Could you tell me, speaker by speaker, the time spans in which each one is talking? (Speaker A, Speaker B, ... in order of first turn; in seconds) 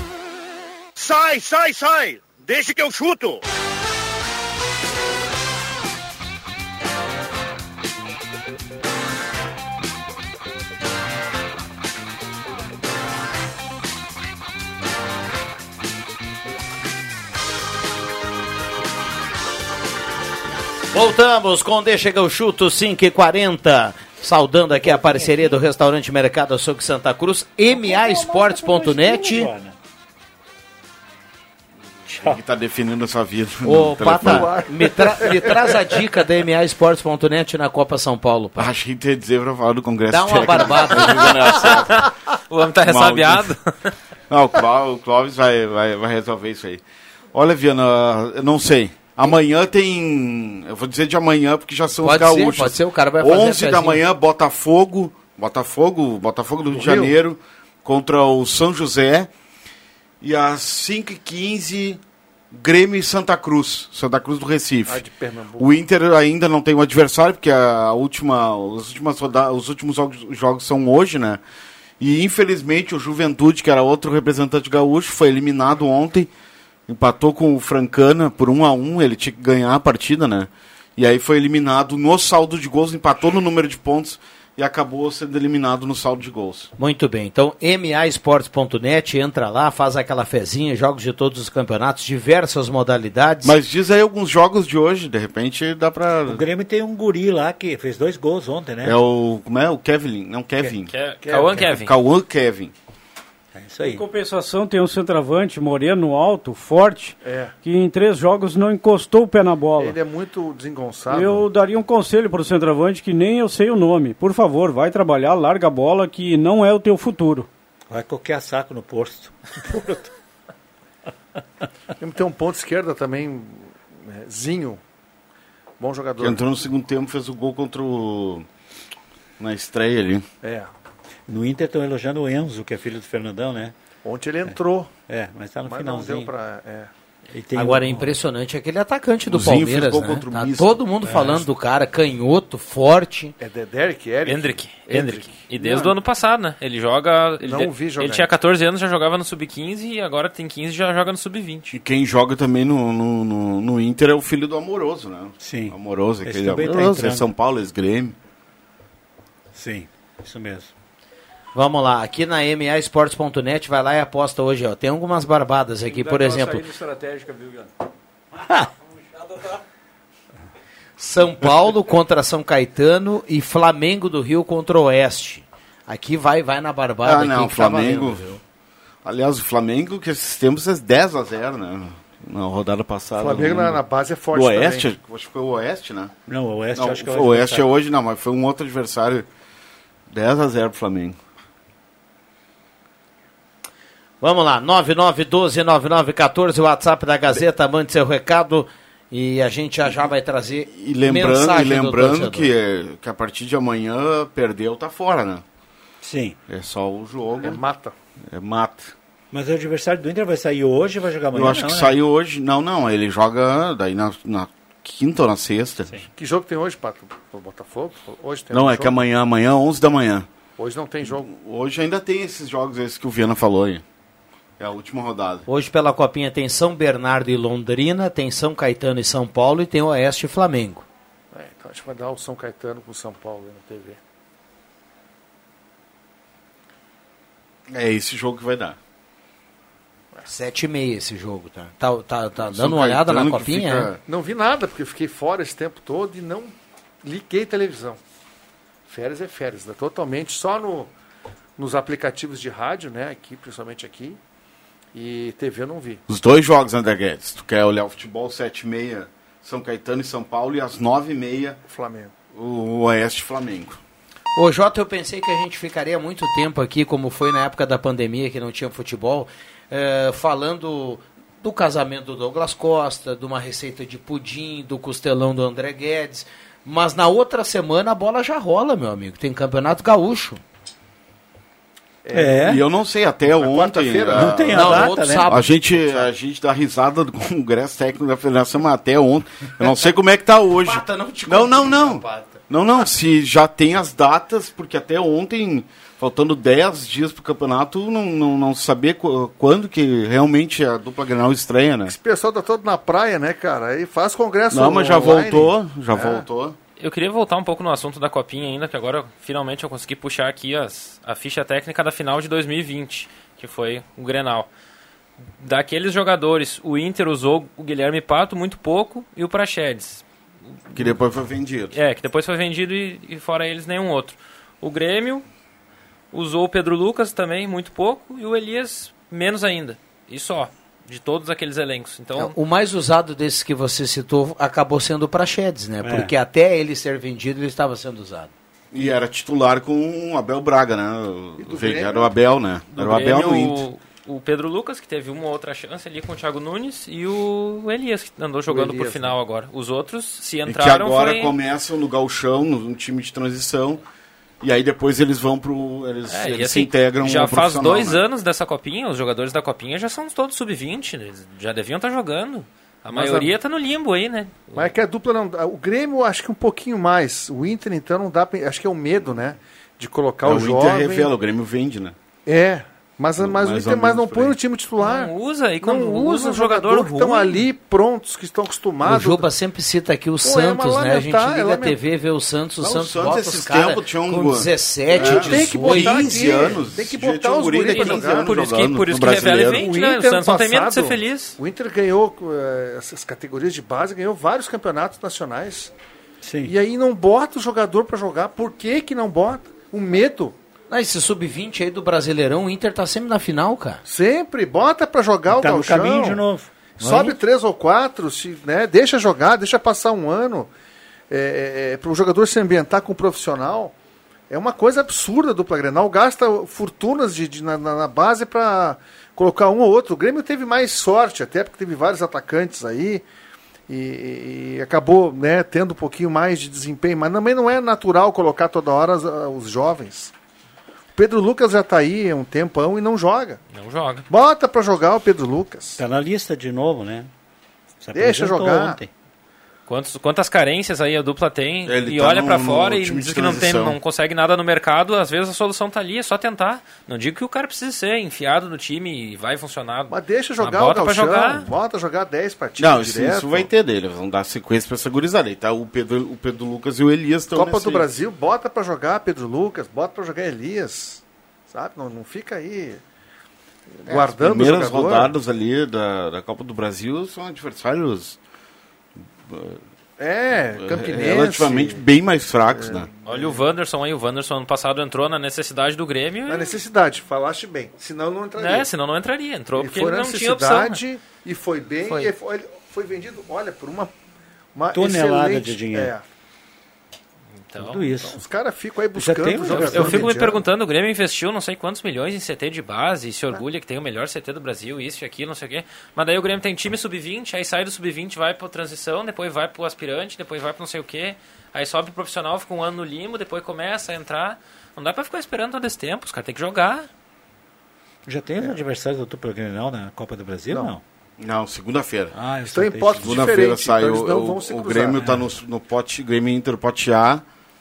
Speaker A: 1.0-3.4
Speaker B: 20.9-29.5, 33.6-38.7, 40.1-41.5, 52.0-54.0, 86.8-93.6, 137.5-143.3, 161.5-166.7, 171.0-178.4, 194.2-202.5, 225.5-230.9, 240.3-243.9, 264.4-280.4, 284.5-286.0, 290.6-292.4, 332.2-338.3, 378.8-386.4, 400.7-403.8
Speaker C: 24.8-25.6, 27.7-29.8, 96.3-99.0, 103.5-104.1, 117.9-120.1, 131.3-133.8, 135.1-136.3, 137.3-138.2, 141.1-141.4, 155.4-157.3, 159.5-160.7, 168.4-168.7, 186.3-187.7, 206.0-206.4, 209.3-211.9, 282.1-282.6, 284.1-285.3, 335.8-336.1, 396.2-396.5, 405.3-407.2, 435.8-437.1, 437.8-438.9, 484.7-485.9, 487.6-488.2, 488.9-490.1, 508.1-510.8, 512.1-513.4
Speaker D: 32.1-34.6, 38.6-42.1, 42.9-43.5, 44.3-46.8, 47.3-59.3, 60.2-62.0, 62.5-65.0, 65.6-71.4, 72.0-76.3, 76.9-86.7, 93.4-96.4, 98.8-100.9, 101.6-102.7, 126.2-128.5, 129.4-130.2, 139.3-140.8, 151.7-158.2, 177.0-178.3, 179.0-186.1, 186.8-189.3, 190.1-191.2, 200.7-205.4, 206.5-207.6, 208.3-208.9, 211.3-216.0, 218.5-220.3, 221.3-223.8, 224.6-225.4, 237.7-238.8, 242.4-244.0, 256.1-261.6, 262.3-263.8, 282.4-301.9, 304.5-306.6, 320.7-321.8, 338.7-343.6, 350.4-353.8, 354.4-358.0, 370.2-371.9, 373.2-374.4, 382.6-389.7, 441.7-443.8, 452.6-457.9, 463.9-468.2, 469.3-469.6, 470.6-472.9, 511.2-512.1, 513.0-517.2
Speaker E: 34.2-35.7, 56.7-57.2, 64.9-65.7, 101.2-101.7, 107.2-107.5, 109.8-111.5, 122.0-124.8, 125.8-126.5, 130.4-130.7, 134.0-134.9, 135.7-136.9, 143.4-145.9, 147.4-148.3, 183.2-184.9, 207.4-207.9, 216.2-219.0, 220.6-221.3, 231.3-234.0, 244.1-248.0, 248.9-250.9, 251.6-254.2, 254.9-256.0, 261.7-262.1, 282.0-282.6, 283.2-284.9, 301.9-306.3, 341.4-342.1, 348.5-349.2, 362.9-363.3, 364.6-371.1, 372.3-379.3, 380.2-381.8, 384.9-388.3, 389.4-395.7, 396.4-400.4, 403.9-406.2, 406.8-410.5, 411.1-413.7, 414.3-423.1, 423.7-430.1, 431.0-433.4, 434.1-435.8, 437.9-438.8, 449.9-453.5, 457.3-462.8, 463.7-465.1, 470.0-471.8, 472.5-473.4, 476.3-478.7, 479.6-483.9, 484.6-486.1, 487.9-490.4, 510.5-510.8, 512.5-515.1
Speaker F: 41.7-43.9, 100.9-101.9, 144.2-151.7, 306.8-314.5, 315.4-320.0, 321.7-325.2, 326.1-332.4, 342.7-351.3, 356.1-364.7, 374.8-377.5, 387.7-391.4, 433.5-434.1, 439.7-451.5, 473.1-476.6, 478.4-480.8, 481.9-482.1, 487.5-487.8, 489.5-506.9
Speaker G: 103.8-110.0, 111.1-117.5, 165.9-167.7